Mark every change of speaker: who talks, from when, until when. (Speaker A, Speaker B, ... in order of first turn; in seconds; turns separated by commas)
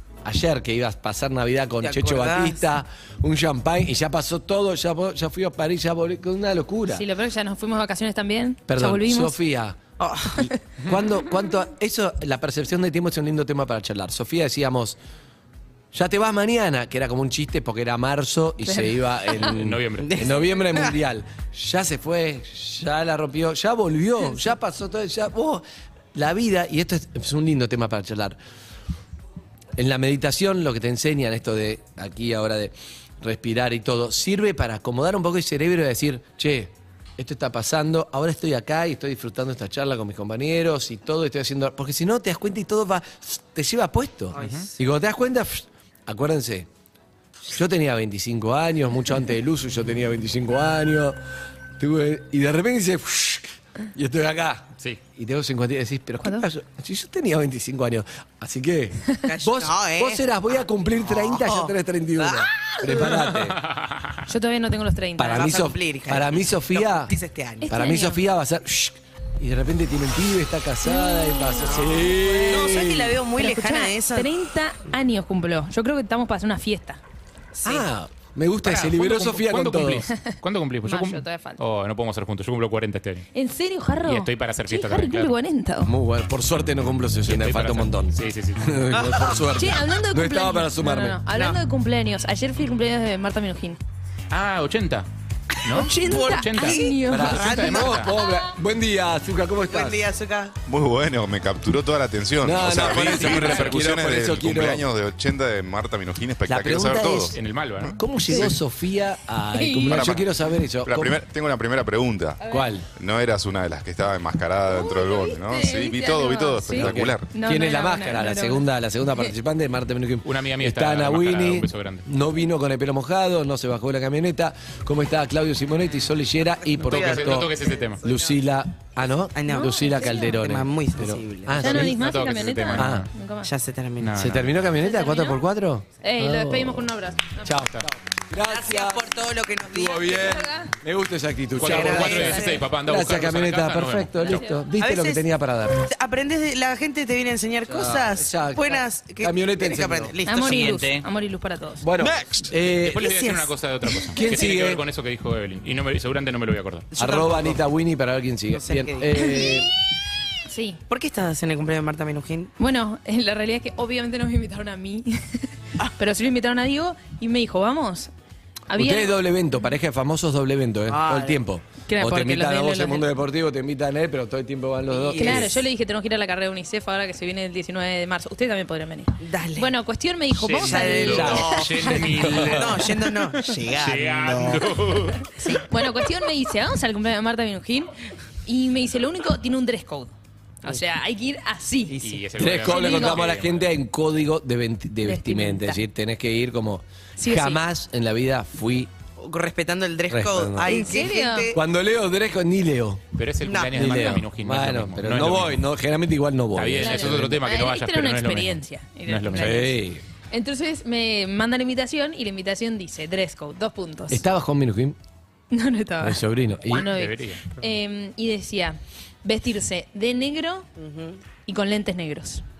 Speaker A: 0.2-7.0, Speaker B: 1.8-2.6, Speaker C: 6.9-9.4, Speaker A: 8.7-9.8, Speaker B: 10.0-10.5, Speaker A: 10.3-15.0, Speaker A: 15.9-28.4, Speaker D: 19.4-20.3, Speaker B: 20.0-20.9, Speaker A: 29.8-46.7, Speaker B: 44.3-44.7, Speaker D: 44.4-44.7, Speaker A: 47.5-51.2, Speaker A: 51.8-63.6, Speaker C: 56.2-56.5, Speaker B: 59.2-60.2, Speaker B: 61.0-63.0, Speaker D: 62.9-64.2, Speaker C: 64.3-65.6, Speaker A: 65.2-67.1, Speaker B: 65.3-67.7, Speaker C: 67.6-68.2, Speaker A: 67.7-73.2, Speaker C: 70.9-71.7, Speaker B: 71.6-74.3, Speaker C: 73.3-77.0, Speaker B: 77.5-77.9, Speaker A: 77.6-80.1, Speaker D: 78.7-83.3, Speaker C: 80.8-81.6, Speaker C: 83.3-85.9, Speaker D: 84.0-85.3, Speaker A: 85.8-91.2, Speaker D: 87.3-89.0, Speaker B: 89.0-89.3, Speaker C: 89.5-93.8, Speaker B: 91.3-91.6, Speaker D: 94.3-95.1, Speaker D: 95.6-98.1, Speaker B: 95.7-98.0, Speaker C: 95.7-97.5, Speaker A: 97.1-100.0, Speaker C: 98.1-98.5, Speaker B: 99.7-100.5, Speaker E: 100.7-107.4, Speaker A: 102.4-104.8, Speaker D: 102.9-103.8, Speaker A: 106.5-111.2, Speaker D: 107.3-108.4, Speaker C: 109.5-110.1, Speaker E: 109.9-110.3, Speaker E: 110.8-112.4, Speaker C: 112.4-112.7, Speaker A: 112.5-112.8, Speaker E: 112.9-117.3, Speaker C: 114.7-118.6, Speaker A: 116.7-131.9, Speaker D: 120.2-122.1, Speaker B: 126.7-128.4, Speaker D: 126.8-128.0, Speaker B: 129.3-131.6, Speaker C: 129.5-130.4, Speaker C: 131.6-133.5, Speaker D: 131.6-133.1, Speaker A: 132.7-133.1, Speaker B: 133.4-134.2, Speaker D: 134.0-134.5, Speaker A: 134.2-145.9, Speaker C: 134.8-135.4, Speaker C: 136.0-137.6, Speaker B: 138.4-140.4, Speaker C: 139.9-140.7, Speaker D: 141.6-144.4, Speaker B: 141.6-142.7, Speaker C: 141.9-142.5, Speaker C: 144.2-144.6, Speaker B: 144.8-145.2, Speaker B: 145.8-150.9, Speaker A: 147.7-150.1, Speaker C: 150.2-151.8, Speaker D: 150.4-151.0, Speaker A: 151.8-153.1, Speaker B: 152.0-154.2, Speaker D: 152.8-156.9, Speaker A: 154.2-154.8, Speaker B: 156.9-157.6, Speaker A: 157.0-159.7, Speaker B: 158.5-159.5, Speaker C: 160.5-160.8, Speaker B: 160.9-162.5, Speaker C: 162.6-168.1, Speaker C: 168.7-169.2, Speaker A: 168.7-175.6, Speaker B: 170.9-171.4, Speaker C: 171.9-173.0, Speaker B: 174.9-175.6, Speaker C: 175.2-182.0, Speaker B: 179.2-179.7, Speaker D: 180.4-185.6, Speaker B: 180.5-184.7, Speaker A: 180.8-182.8, Speaker B: 185.4-185.7, Speaker C: 185.7-187.9, Speaker C: 188.4-192.0, Speaker D: 192.0-193.7, Speaker A: 192.3-198.9, Speaker C: 192.5-193.3, Speaker C: 195.0-195.8, Speaker C: 197.2-197.6, Speaker B: 199.2-201.6, Speaker A: 200.1-200.9, Speaker C: 200.7-201.5, Speaker A: 201.5-203.0, Speaker D: 203.1-205.6, Speaker B: 203.4-204.2, Speaker A: 203.7-207.4, Speaker D: 206.5-209.6, Speaker C: 206.8-214.2, Speaker A: 209.3-210.0, Speaker A: 214.1-214.9, Speaker C: 215.5-220.7, Speaker A: 216.0-216.9, Speaker D: 216.9-217.6, Speaker B: 220.8-221.2, Speaker C: 221.4-222.4